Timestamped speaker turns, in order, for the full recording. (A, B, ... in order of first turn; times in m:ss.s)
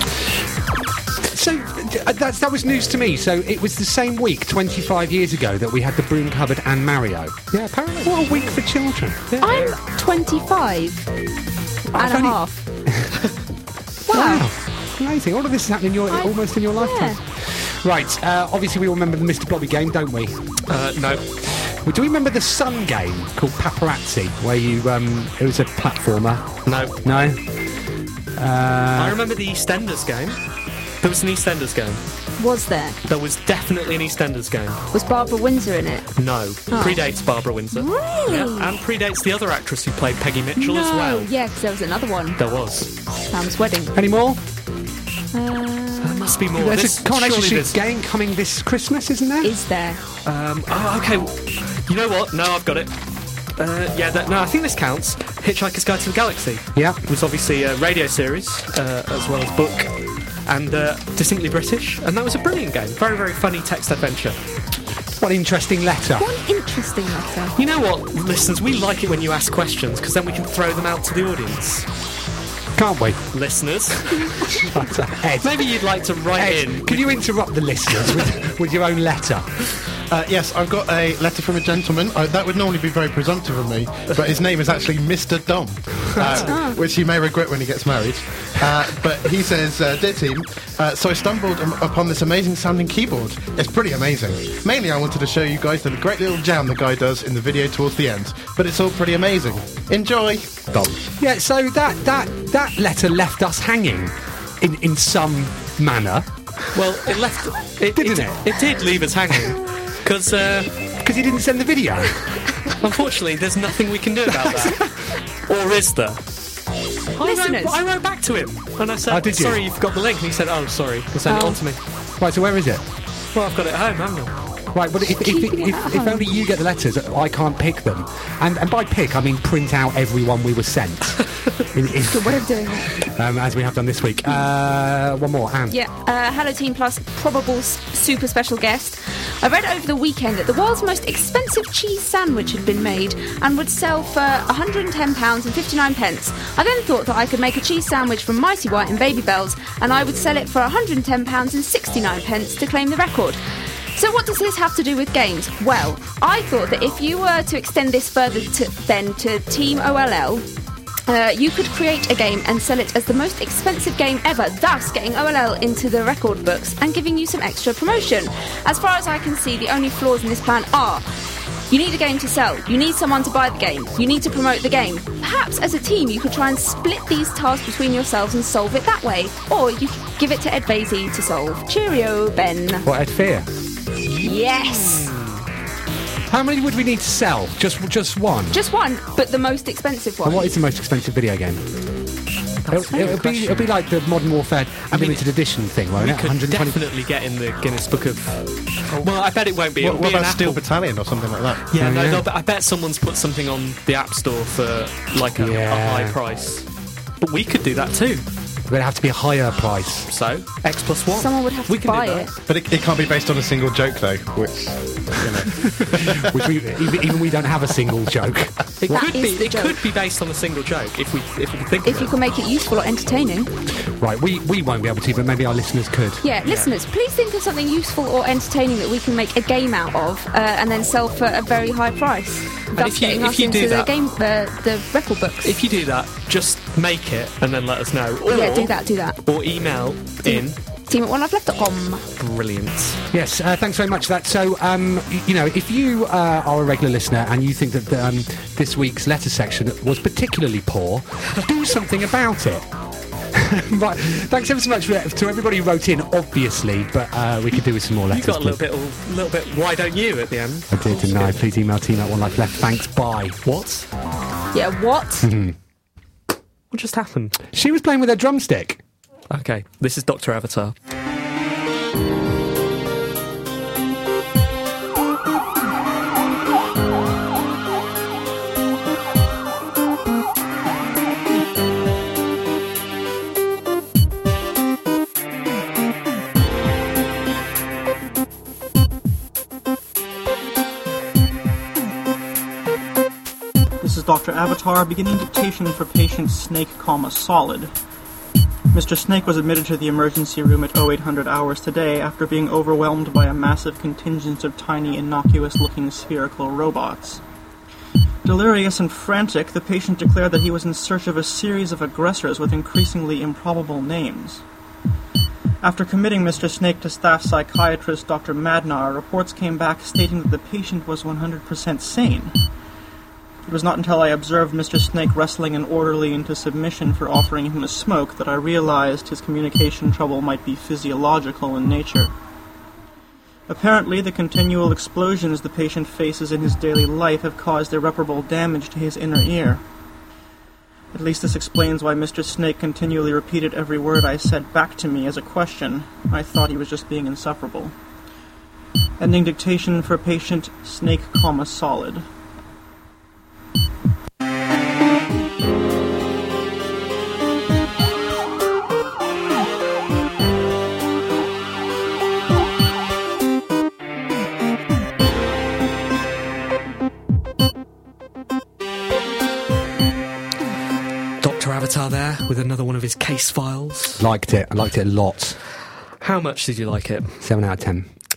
0:01.2-0:09.4 A
0:09.3-0:09.7 B
0:09.4-0:11.1 C
0:11.9-0:12.4 A
0:11.9-0:12.6 C
0:14.1-0:14.4 C
0:14.1-0:20.4 A
0:16.1-0:17.2 C
0:20.7-0:21.2 B
0:21.4-0:27.7 A
0:26.6-0:27.0 B
0:28.3-0:29.2 A
0:29.0-0:30.4 B
0:31.0-0:32.0 B
0:32.4-0:33.0 C
0:33.0-0:34.8 B
0:34.9-0:36.1 C
0:36.2-0:41.3 B
0:36.7-0:37.0 C
0:37.7-0:38.7 C
0:40.6-0:42.4 C
0:42.4-0:42.9 B
0:43.1-0:44.0 C
0:43.9-0:44.4 A
0:45.3-0:46.4 C
0:46.0-0:47.8 B
0:46.6-0:49.6 A
0:49.4-0:50.0 C
0:50.2-0:53.0 B
0:53.6-1:04.4 B
0:56.7-0:57.0 A
1:05.2-1:06.3 A
1:06.2-1:07.5 C
1:07.5-1:11.9 B
1:12.8-1:13.3 A
1:13.3-1:14.6 B
1:14.1-1:19.5 A
1:15.4-1:17.2 B
1:17.9-1:18.3 B
1:20.1-1:40.9 D
1:26.2-1:26.6 B
1:26.4-1:26.8 C
1:41.1-1:46.3 A
1:46.7-1:50.7 B
1:47.9-1:48.5 A
1:51.0-1:52.4 A
1:52.8-1:56.2 B
1:54.4-1:54.9 A
1:57.1-2:01.8 B
1:57.2-1:57.8 C
1:59.1-1:59.6 A
2:01.3-2:01.6 C
2:02.2-2:02.8 A
2:03.3-2:04.3 B
2:04.7-2:15.8 A
2:05.0-2:06.3 C
2:12.0-2:12.9 C
2:15.7-2:33.4 C
2:33.9-2:40.5 C
2:41.1-2:51.1 C
2:51.7-3:02.8 C
3:02.8-3:03.5 A
3:04.0-3:05.4 B
3:04.2-3:05.1 C
3:06.3-3:08.6 A
3:08.5-3:10.6 C
3:10.2-3:11.6 A
3:12.6-3:13.7 B
3:12.7-3:16.8 A
3:14.9-3:15.3 B
3:16.0-3:20.6 B
3:19.8-3:21.6 D
3:21.7-3:26.7 B
3:21.8-3:22.3 A
3:25.3-3:26.2 A
3:27.2-3:28.2 B
3:28.7-3:30.1 A
3:30.1-3:32.3 B
3:31.1-3:32.3 C
3:32.4-3:36.5 D
3:35.6-3:39.0 A
3:38.8-3:42.1 B
3:38.9-3:39.8 C
3:41.8-3:43.5 C
3:43.9-3:46.2 A
3:46.2-3:55.6 C
3:46.4-3:46.7 B
3:52.7-3:53.9 B
3:55.4-4:00.6 B
3:58.3-3:59.2 C
4:00.2-4:02.0 C
4:02.2-4:03.0 B
4:03.1-4:12.7 A
4:13.3-4:18.6 A
4:18.1-4:21.4 B
4:20.7-4:23.4 A
4:23.4-4:23.9 B
4:24.5-4:25.3 C
4:25.2-4:25.6 A
4:26.7-4:27.4 B
4:27.5-4:28.8 A
4:29.3-4:30.7 B
4:53.8-4:57.7 E
4:58.7-5:07.2 E
5:08.2-5:14.4 E
5:15.6-5:22.3 E
5:23.4-5:32.1 E
5:33.5-5:39.6 E
5:40.9-5:47.7 E
5:49.0-5:52.0 E
6:11.2-6:14.0 B
6:14.0-6:15.4 A
6:16.0-6:17.2 B
6:17.2-6:17.9 A